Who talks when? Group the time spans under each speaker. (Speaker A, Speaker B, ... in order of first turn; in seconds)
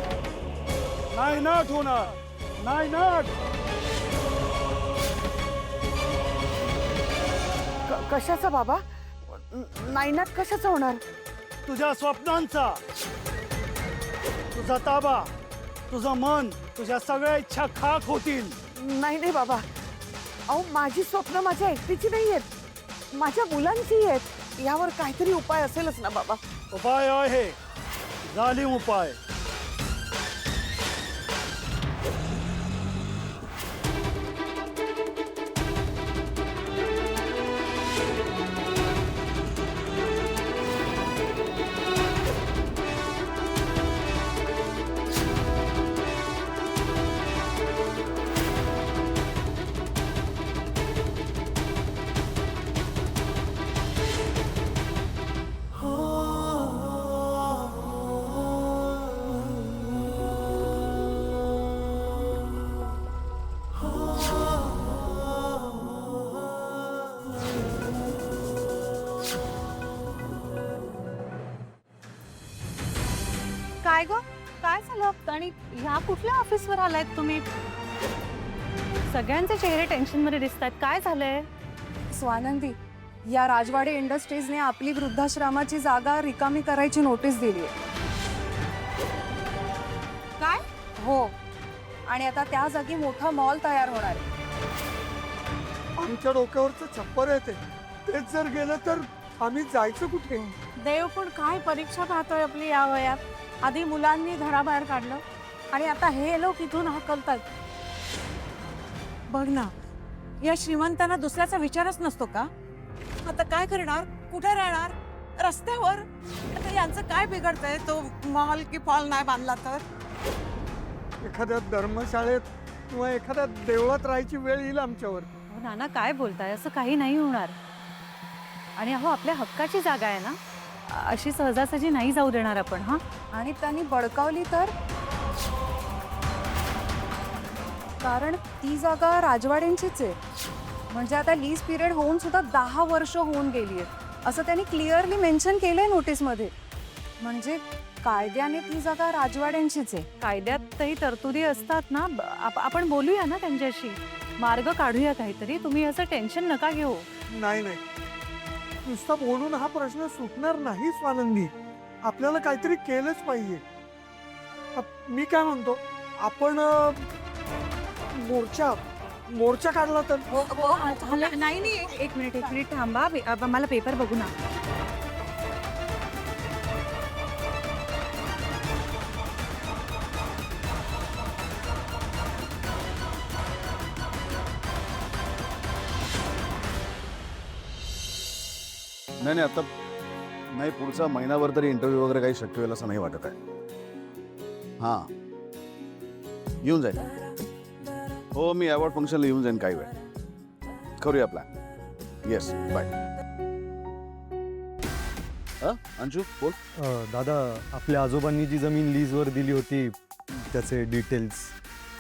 Speaker A: 1.1-3.3, 11.7-12.8, 14.5-15.3, 15.9-18.6, 26.7-27.6, 28.3-29.2
Speaker B: 7.9-11.0, 18.8-19.6, 20.5-22.4, 23.1-26.4
Speaker C: 73.8-77.4, 79.1-81.5, 125.5-127.5, 128.8-133.0, 150.2-157.1, 170.3-174.3
Speaker D: 82.1-87.7, 90.4-91.3, 92.1-94.2, 133.3-134.7, 138.0-140.2, 140.9-146.5, 147.2-150.1
Speaker E: 96.0-100.5, 121.2-125.3, 157.3-157.8, 158.9-161.5, 162.0-163.6, 164.8-167.1, 168.2-168.8, 169.3-170.3
Speaker F: 100.8-107.4, 109.3-109.7, 110.4-112.5, 113.2-119.8
Speaker G: 189.2-189.7, 190.5-193.3, 194.8-195.1, 196.6-197.1, 198.3-199.9, 201.0-201.5, 202.3-202.9, 205.6-206.6
Speaker H: 206.8-211.5